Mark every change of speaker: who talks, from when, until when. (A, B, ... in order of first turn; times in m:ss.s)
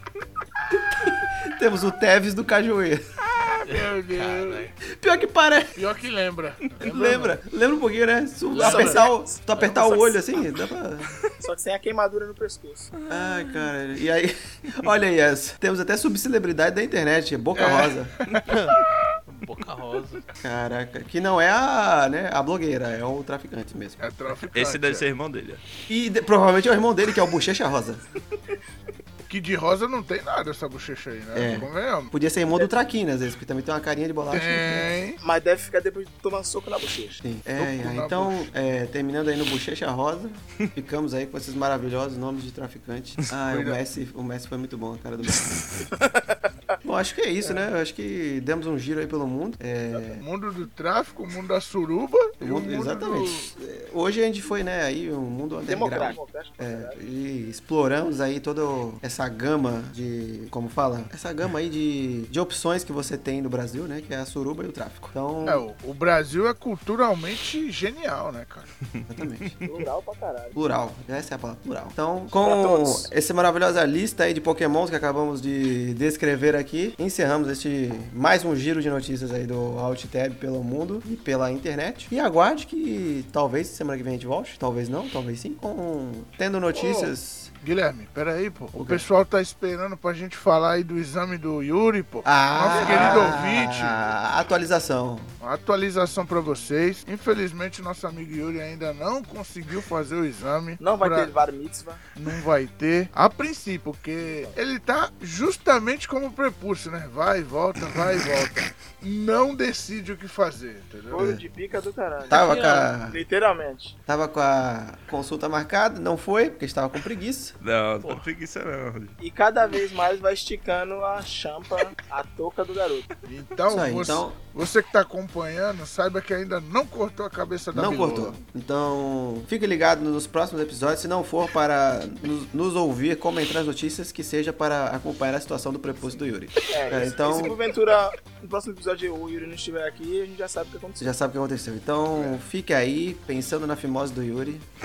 0:00.9-0:03.0 A
0:03.6-0:04.7 B
0:03.7-0:04.7 C
0:04.8-0:05.8 A
0:05.8-0:07.4 B
0:06.8-0:11.1 A
0:08.5-0:09.0 B
0:08.5-0:10.2 D
0:11.3-0:12.9 D
0:13.1-0:18.1 A
0:17.6-0:18.0 B
0:18.4-0:18.8 C
0:19.3-0:20.2 C
0:20.4-0:24.0 A
0:24.0-0:25.0 B
0:24.5-0:25.6 E
0:25.9-0:28.0 A
0:29.3-0:32.1 B
0:31.3-0:34.9 A
0:34.3-0:35.2 B
0:35.2-0:37.2 D
0:37.2-0:45.5 A
0:37.6-0:38.4 B
0:43.5-0:43.8 B
0:45.8-0:46.5 D
0:46.8-0:50.2 A
0:50.2-0:53.5 B
0:52.4-1:05.6 A
0:55.7-0:57.0 D
1:05.4-1:08.7 B
1:09.1-1:09.6 A
1:09.6-1:10.6 D
1:10.5-1:27.5 A
1:12.3-1:13.1 D
1:26.7-1:34.0 B
1:28.7-1:29.0 A
1:32.2-1:35.3 A
1:32.8-1:33.2 D
1:35.4-1:41.3 B
1:40.8-1:42.0 D
1:42.1-1:51.2 B
1:51.1-1:54.0 D
1:51.1-1:51.4 A
1:52.3-1:53.2 A
1:54.1-1:57.5 A
1:57.6-1:59.2 E
1:59.2-2:03.1 D
2:03.2-2:08.4 B
2:03.7-2:04.4 A
2:07.7-2:17.6 A
2:16.7-2:21.1 D
2:21.0-2:24.7 A